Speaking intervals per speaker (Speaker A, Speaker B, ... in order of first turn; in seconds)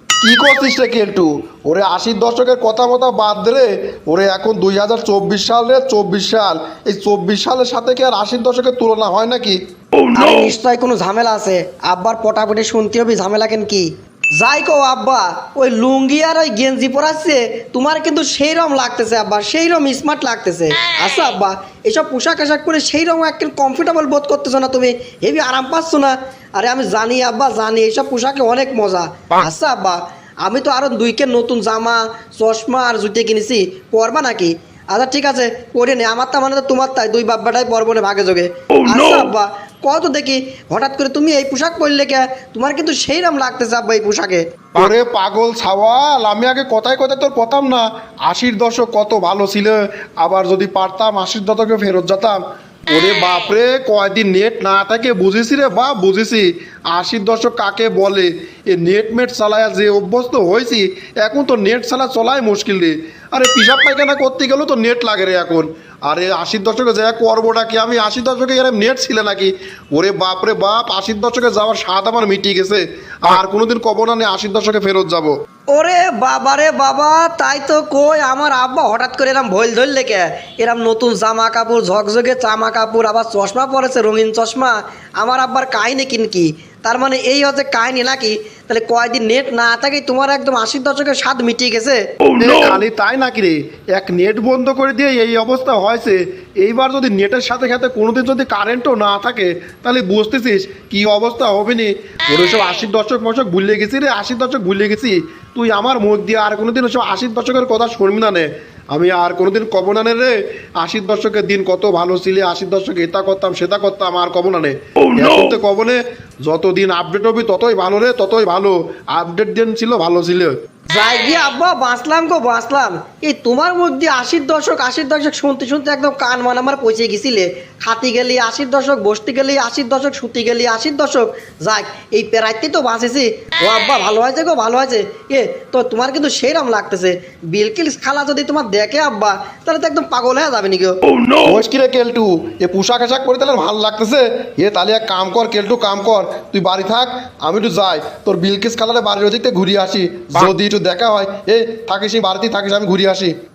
Speaker A: 0.2-9.6, 44.7-75.3, 92.4-120.5, 141.4-153.3
Speaker B: 10.1-44.4, 75.7-92.0, 120.9-141.0